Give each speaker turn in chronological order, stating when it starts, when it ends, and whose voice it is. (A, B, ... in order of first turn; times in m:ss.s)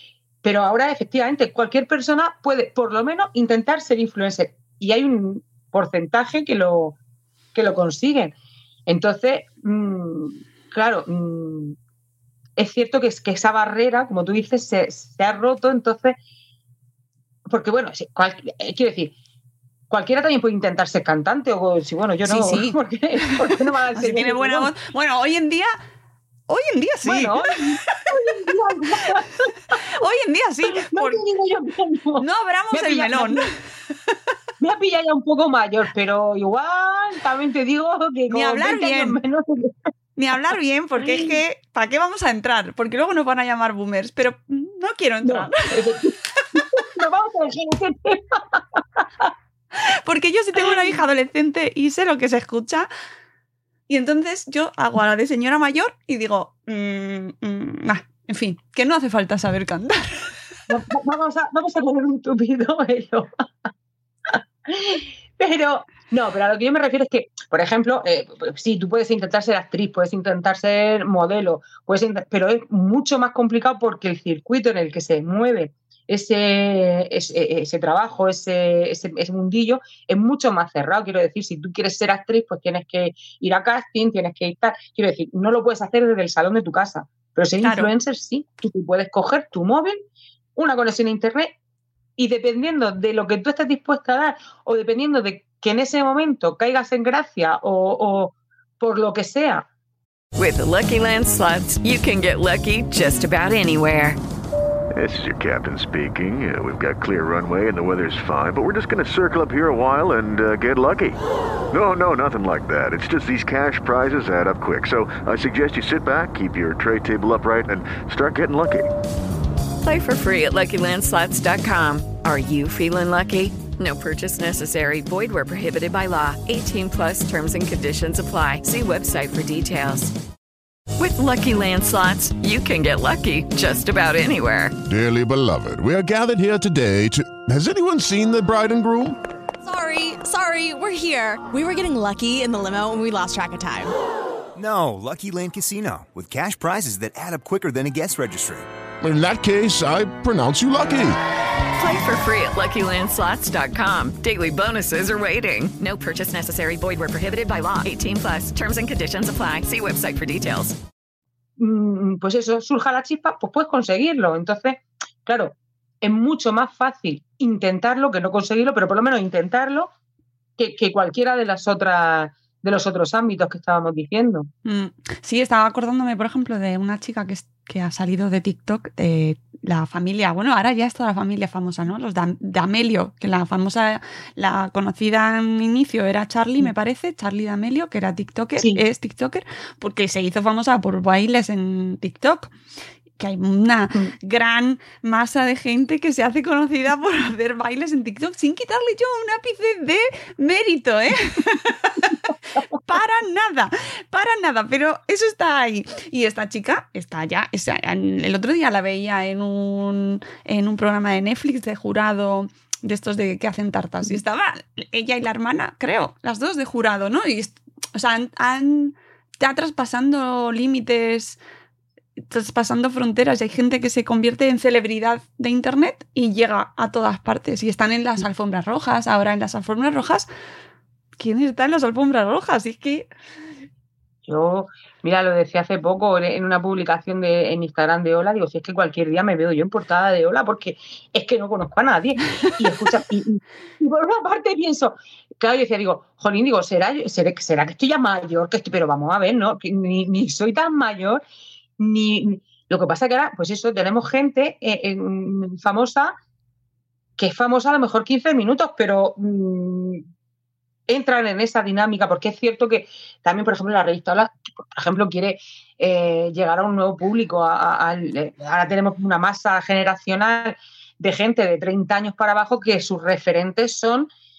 0:00.4-0:07.0 A
0:07.5-0:08.3 A
0:08.9-0:11.8 A
0:12.6-0:16.2 A
0:17.5-0:19.1 A
0:19.9-0:24.7 A
0:22.3-0:22.8 B
0:23.9-0:25.8 B
0:26.5-0:27.9 B
0:27.0-0:29.5 A
0:29.9-0:31.2 B
0:30.8-0:33.5 A
0:32.2-0:33.6 B
0:34.6-0:39.7 A
0:38.3-0:39.2 B
0:40.2-0:45.6 B
0:45.2-0:49.3 A
0:49.8-0:52.9 B
0:53.9-1:00.3 B
1:00.7-1:03.3 A
1:04.3-1:30.0 A
1:27.6-1:27.9 B
1:30.6-1:31.5 A
1:32.2-1:39.6 A
1:40.4-1:44.2 C
1:45.0-1:51.2 D
1:51.7-1:58.9 D
1:59.8-2:10.1 C
2:11.0-2:14.8 C
2:14.8-2:19.2 E
2:19.6-2:23.9 F
2:24.5-2:28.6 G
2:29.0-2:31.2 E
2:31.7-2:40.8 C
2:41.6-2:49.9 A
2:50.6-2:54.5 A
2:54.6-3:12.5 B
3:08.6-3:08.8 A
3:13.2-3:22.2 B
3:22.7-3:41.4 B
3:42.2-3:50.3 B
3:51.2-3:53.1 B
3:54.2-4:11.2 A
4:11.8-4:16.1 A
4:17.2-4:20.0 A
4:20.9-4:34.1 A